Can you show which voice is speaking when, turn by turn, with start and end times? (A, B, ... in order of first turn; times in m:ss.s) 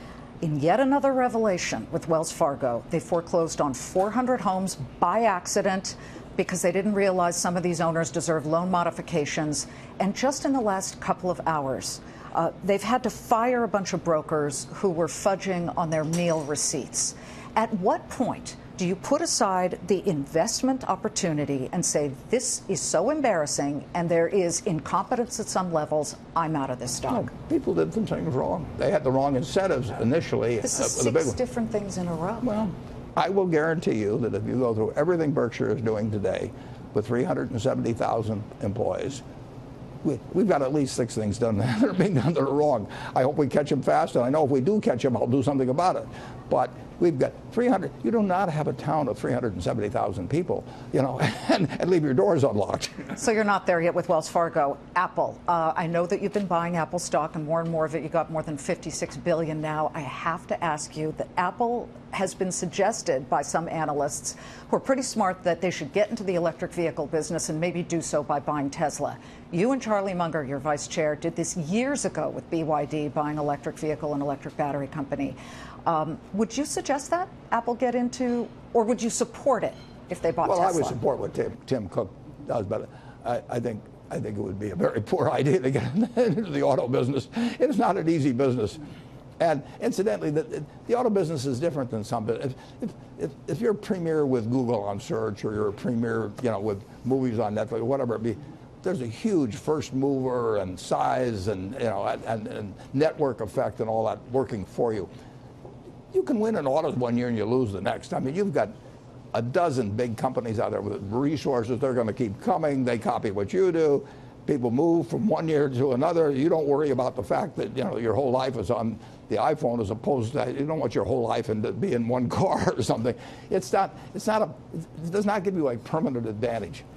0:00.4-0:27.3 A
0:27.1-0:31.4 B
0:30.6-0:32.5 A
0:32.4-0:39.2 B
0:40.0-0:53.2 B
0:53.2-1:21.0 A
1:20.4-1:28.9 B
1:29.4-1:45.1 B
1:46.1-1:48.7 B
1:49.3-2:06.8 B